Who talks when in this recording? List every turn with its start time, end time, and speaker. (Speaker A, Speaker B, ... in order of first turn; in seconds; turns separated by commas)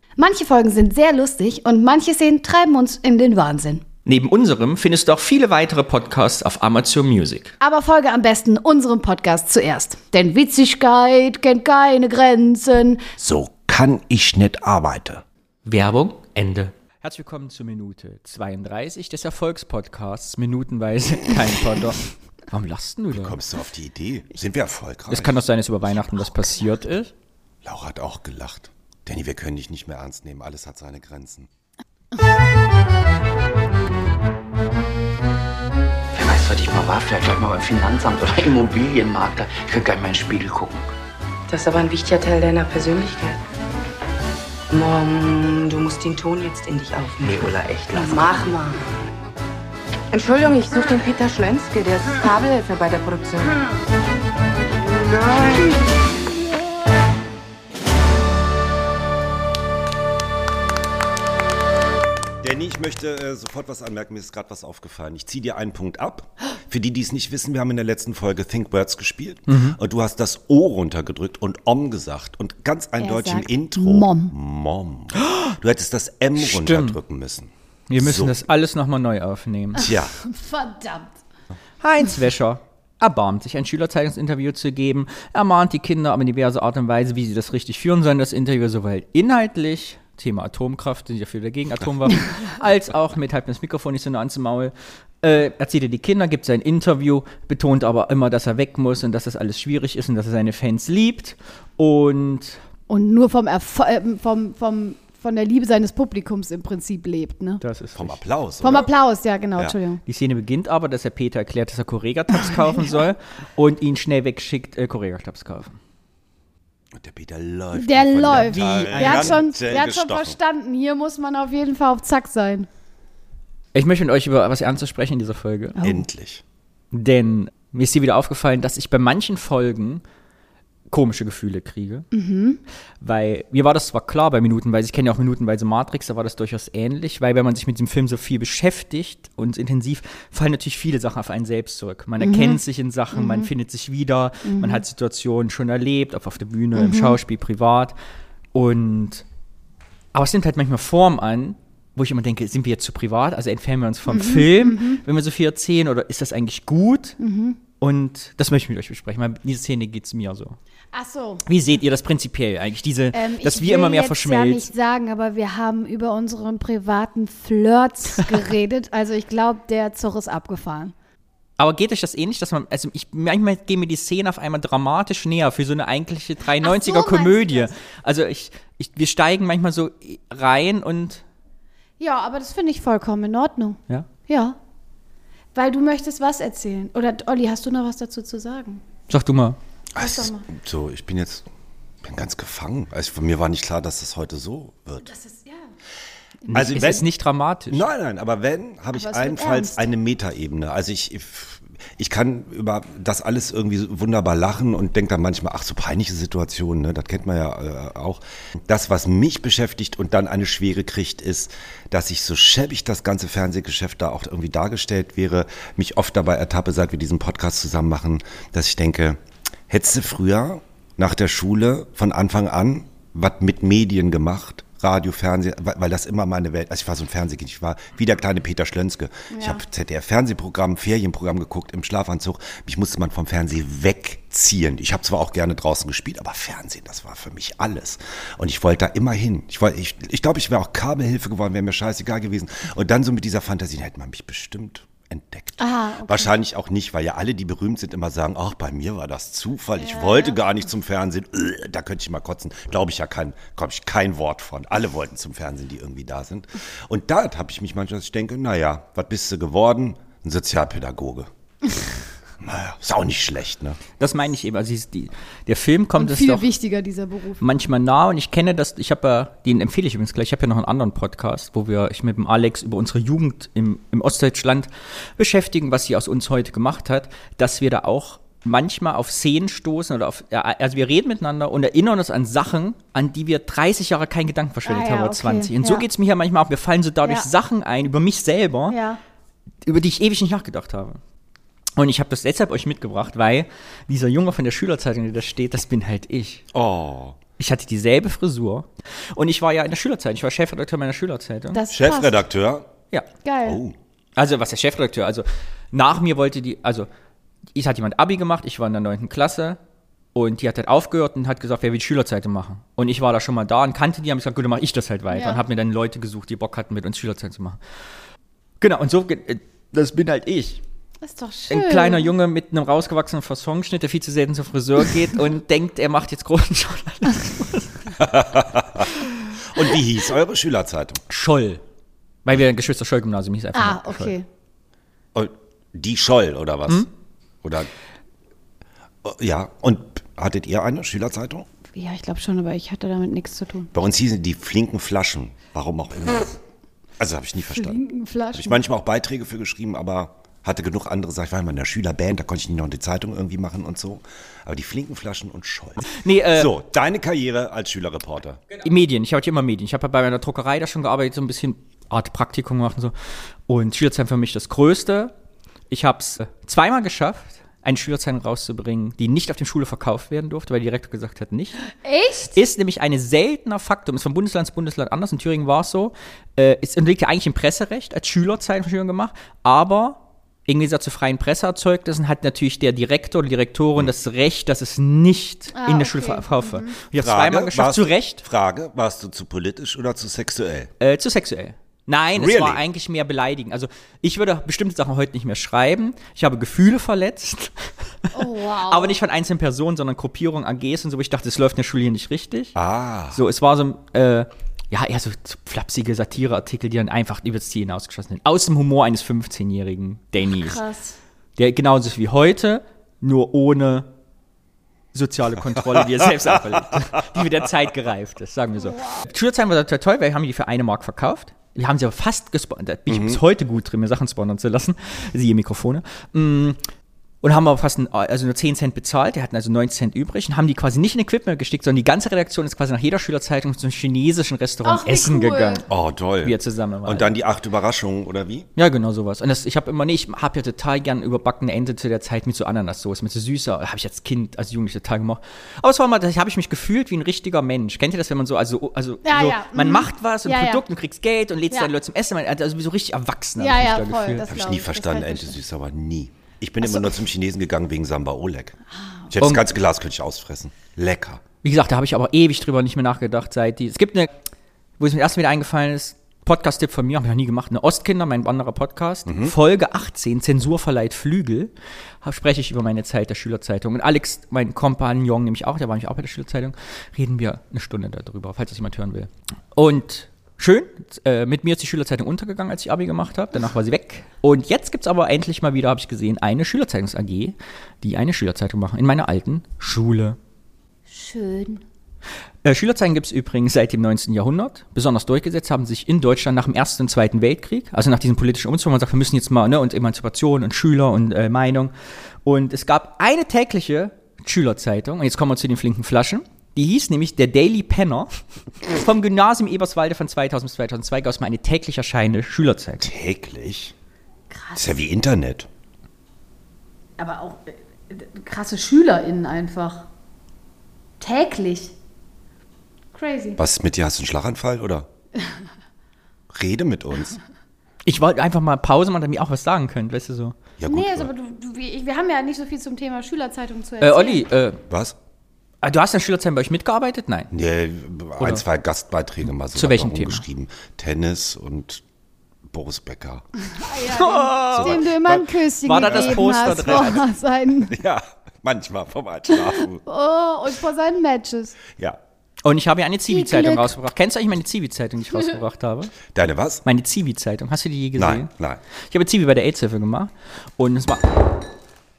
Speaker A: 0.2-3.8, Speaker B: 4.0-7.5, Speaker A: 7.6-13.0, Speaker C: 13.2-15.2, Speaker B: 15.7-23.4, Speaker C: 23.1-25.4, Speaker B: 25.1-27.1, Speaker C: 27.6-31.5, Speaker D: 36.1-40.9, Speaker E: 41.5-43.4, Speaker E: 44.7-48.8, Speaker D: 47.2-48.6, Speaker E: 50.1-53.6, Speaker E: 54.8-55.9, Speaker C: 62.4-78.3, Speaker B: 69.5-69.8, Speaker A: 73.0-74.3, Speaker B: 75.2-75.5, Speaker B: 76.4-77.0, Speaker B: 77.9-79.9, Speaker C: 79.8-80.1, Speaker A: 79.9-81.2, Speaker B: 81.8-102.6, Speaker A: 102.9-107.6, Speaker B: 107.6-108.2, Speaker C: 107.9-108.9, Speaker A: 108.6-110.0, Speaker B: 110.1-115.8, Speaker C: 117.0-120.3, Speaker A: 117.7-122.7, Speaker B: 118.3-119.4, Speaker B: 123.7-125.8, Speaker A: 125.8-126.0, Speaker C: 125.8-126.4, Speaker B: 126.9-130.0, Speaker B: 130.9-132.1, Speaker A: 132.1-132.6, Speaker B: 133.0-147.9, Speaker A: 142.2-142.6, Speaker A: 143.1-143.5, Speaker A: 144.4-144.8, Speaker A: 146.7-147.2, Speaker B: 148.5-149.2, Speaker B: 150.1-157.2, Speaker A: 154.1-155.0, Speaker A: 157.2-157.6, Speaker B: 157.8-160.6, Speaker A: 160.9-161.4, Speaker B: 161.4-164.7, Speaker A: 163.1-170.9, Speaker B: 171.6-181.2, Speaker A: 176.6-177.7, Speaker A: 182.0-184.6, Speaker A: 185.5-188.8, Speaker B: 189.1-189.6, Speaker C: 189.9-191.5, Speaker A: 190.0-190.5, Speaker C: 192.0-195.1, Speaker A: 195.0-195.7, Speaker B: 196.4-197.8, Speaker C: 196.5-197.0, Speaker C: 197.7-219.2, Speaker A: 198.9-199.8, Speaker C: 219.7-261.3, Speaker A: 229.3-229.6, Speaker A: 245.6-246.3, Speaker A: 249.7-250.4, Speaker C: 262.4-263.8, Speaker B: 264.0-266.5, Speaker A: 265.9-267.4, Speaker B: 267.4-288.8, Speaker A: 284.6-285.9, Speaker A: 288.7-289.0, Speaker B: 289.6-291.0, Speaker B: 291.8-296.5, Speaker C: 296.5-297.2, Speaker B: 297.4-301.6, Speaker A: 301.5-302.2, Speaker C: 301.7-302.7, Speaker A: 303.2-303.6, Speaker C: 303.4-303.7, Speaker B: 304.2-306.9, Speaker B: 307.5-309.6, Speaker B: 310.1-317.8, Speaker A: 315.1-315.4, Speaker B: 318.6-320.6, Speaker A: 321.0-322.1, Speaker B: 321.5-328.0, Speaker C: 328.0-331.0, Speaker B: 331.1-331.6, Speaker B: 332.2-334.1, Speaker A: 333.5-334.3, Speaker C: 335.1-336.9, Speaker C: 337.4-337.7, Speaker C: 339.0-341.4, Speaker A: 341.7-343.7, Speaker C: 343.7-346.3, Speaker C: 347.0-347.8, Speaker A: 347.5-348.6, Speaker C: 348.3-358.4, Speaker B: 355.9-356.5, Speaker B: 358.6-362.9, Speaker B: 363.5-365.1, Speaker B: 365.7-371.6, Speaker A: 371.7-372.4, Speaker B: 372.3-388.2, Speaker A: 385.5-386.8, Speaker C: 386.9-390.7, Speaker B: 390.8-402.6, Speaker C: 392.1-392.6, Speaker A: 398.1-399.0, Speaker C: 402.6-403.2, Speaker B: 403.1-410.6, Speaker A: 410.2-411.0, Speaker B: 411.4-413.9, Speaker B: 414.9-426.6, Speaker C: 422.9-423.2, Speaker B: 427.2-435.7, Speaker A: 434.6-435.6, Speaker C: 435.7-438.5, Speaker B: 436.2-437.1, Speaker B: 438.6-454.2, Speaker A: 449.0-450.6, Speaker A: 453.4-455.4, Speaker C: 454.3-458.6, Speaker A: 456.6-457.0, Speaker A: 458.7-459.1, Speaker C: 459.1-461.2, Speaker B: 461.4-464.1, Speaker B: 464.8-471.5, Speaker C: 469.1-469.3, Speaker B: 472.0-490.2, Speaker A: 490.9-491.6, Speaker B: 492.4-501.7, Speaker B: 502.2-512.9, Speaker C: 512.8-513.7, Speaker A: 514.3-514.9, Speaker C: 514.5-515.5, Speaker A: 517.0-519.9, Speaker A: 521.0-521.7, Speaker A: 522.9-523.4, Speaker C: 523.4-524.9, Speaker A: 525.2-525.4, Speaker C: 526.3-527.2, Speaker B: 527.8-530.3, Speaker C: 530.6-531.1, Speaker A: 530.6-534.2, Speaker B: 533.8-534.6, Speaker C: 534.7-535.0, Speaker B: 535.6-537.3, Speaker C: 537.3-541.8, Speaker B: 539.5-540.2, Speaker C: 542.5-543.2, Speaker A: 543.5-547.7, Speaker B: 543.9-544.8, Speaker C: 544.5-546.9, Speaker B: 545.6-547.0, Speaker C: 547.7-549.8, Speaker A: 549.3-551.6, Speaker C: 551.7-552.0, Speaker B: 552.4-555.9, Speaker A: 553.1-553.7, Speaker C: 556.1-556.6, Speaker B: 556.6-558.3, Speaker C: 558.0-558.6, Speaker B: 558.9-561.2